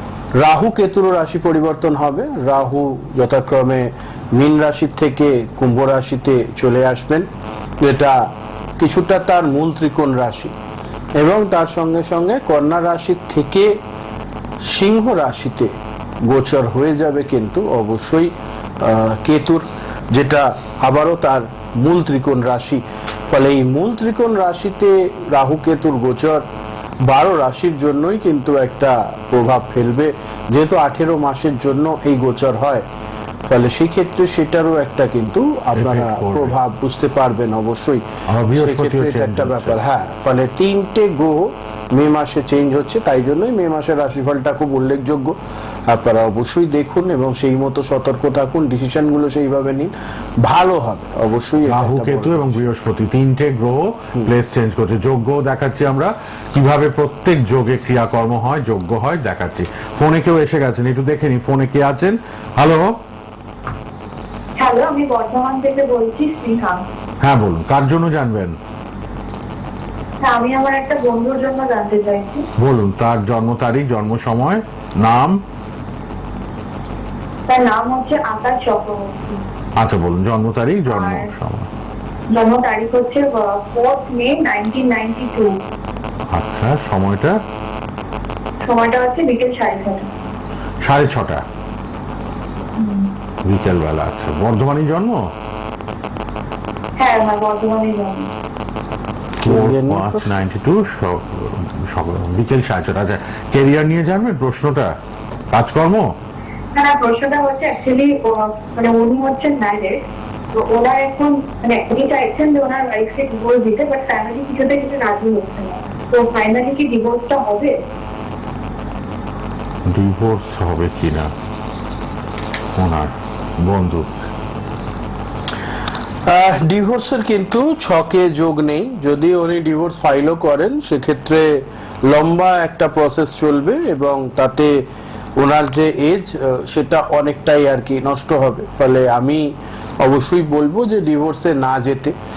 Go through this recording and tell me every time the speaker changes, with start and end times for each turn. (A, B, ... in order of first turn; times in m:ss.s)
0:00.4-0:07.3 A
0:07.8-0:08.2 A
0:08.8-0:10.5 A
0:11.2-0:13.7 A
0:14.6-0:15.7 A
0:16.3-0:26.4 A
0:27.0-0:32.8 A
0:33.5-0:45.4 A
0:35.7-0:36.5 B
0:38.3-0:39.8 B
0:45.9-0:52.6 A
0:51.6-1:03.0 B
1:04.6-1:06.8 C
1:07.2-1:08.6 B
1:10.2-1:12.4 C
1:12.6-1:15.4 B
1:17.5-1:19.4 C
1:19.8-1:21.7 B
1:20.9-1:21.3 C
1:22.3-1:25.6 C
1:26.3-1:27.4 B
1:28.6-1:30.1 C
1:30.8-1:31.4 B
1:32.8-1:33.1 C
1:33.4-1:35.3 B
1:37.0-1:38.3 C
1:39.3-1:45.0 B
1:39.4-1:40.4 A
1:45.5-1:46.1 B
1:46.7-1:57.8 C
1:59.9-2:01.3 B
2:02.8-2:04.1 B
2:06.3-2:14.8 A
2:15.4-2:22.1 A